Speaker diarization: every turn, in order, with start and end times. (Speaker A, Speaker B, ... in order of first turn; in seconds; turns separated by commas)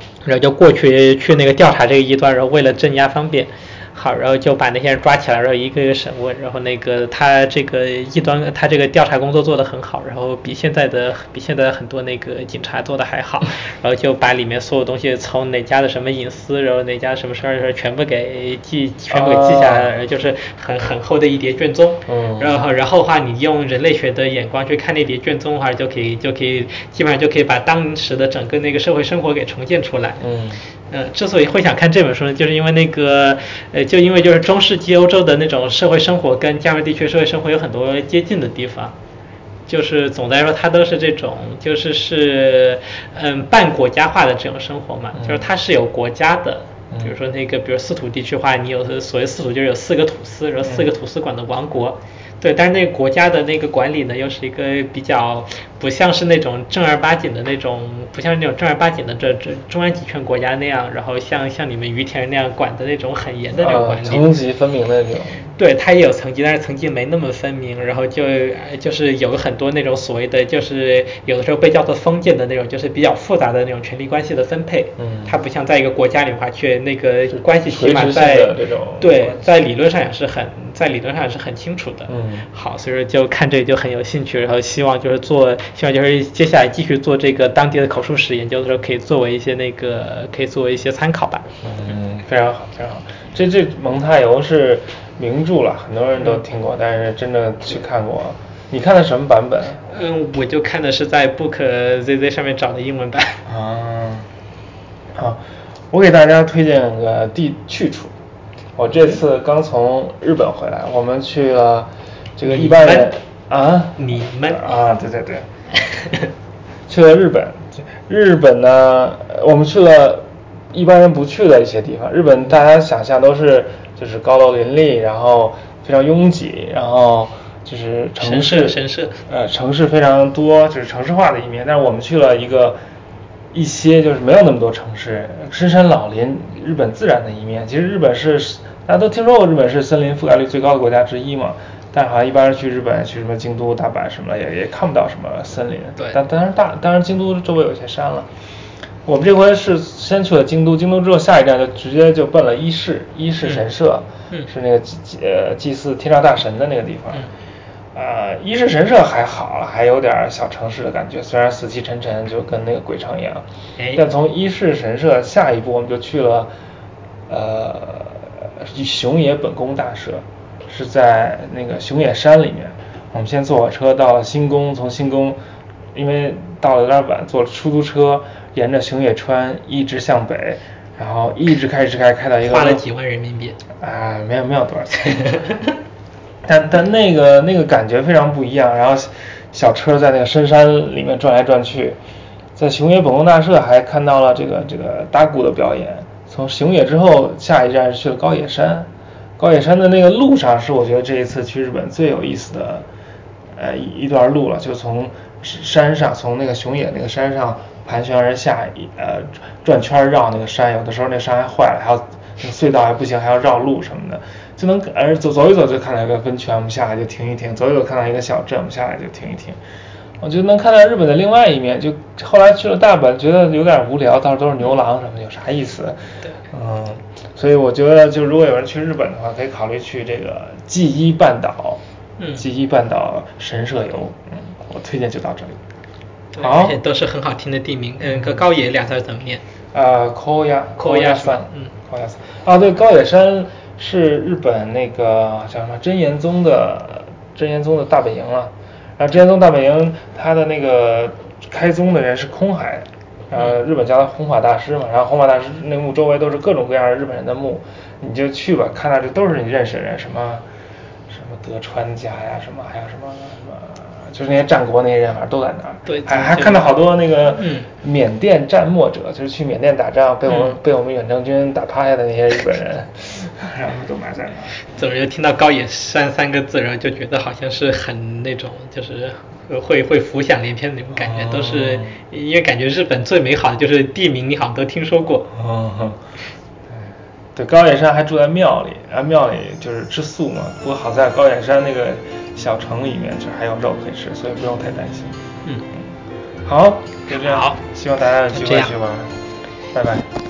Speaker A: 0.2-30.2, Speaker B: 19.1-19.9, Speaker B: 22.1-22.6, Speaker B: 30.2-30.6, Speaker A: 30.9-38.9, Speaker A: 39.7-64.2, Speaker B: 45.1-45.5, Speaker B: 63.6-65.5, Speaker A: 65.6-91.5, Speaker B: 75.0-75.3, Speaker B: 77.3-79.4, Speaker B: 82.1-82.5, Speaker B: 91.6-99.8, Speaker A: 99.9-103.4, Speaker B: 103.5-104.3, Speaker B: 105.1-108.1, Speaker B: 108.8-115.5, Speaker A: 112.4-113.1, Speaker A: 114.0-114.6, Speaker A: 115.7-116.3, Speaker B: 116.9-132.8, Speaker A: 128.2-129.2, Speaker B: 133.5-148.3, Speaker B: 149.0-157.3, Speaker B: 157.9-166.5, Speaker A: 163.8-164.0, Speaker B: 167.3-175.4, Speaker B: 175.9-182.8, Speaker A: 182.4-183.6, Speaker B: 183.8-185.6, Speaker A: 185.2-185.7, Speaker B: 186.4-192.0, Speaker B: 192.6-202.8, Speaker B: 203.5-219.6, Speaker B: 220.2-231.8, Speaker B: 232.3-235.6, Speaker A: 236.3-239.4, Speaker B: 236.4-236.8, Speaker B: 238.0-238.4, Speaker B: 239.7-260.4, Speaker A: 240.8-241.7, Speaker B: 261.1-274.6, Speaker A: 265.9-267.7, Speaker A: 270.3-270.5, Speaker A: 274.7-285.3, Speaker B: 280.9-282.0, Speaker B: 285.3-286.0, Speaker B: 286.7-295.2, Speaker B: 296.4-299.1, Speaker A: 297.1-297.6, Speaker A: 298.3-298.7, Speaker B: 299.7-300.1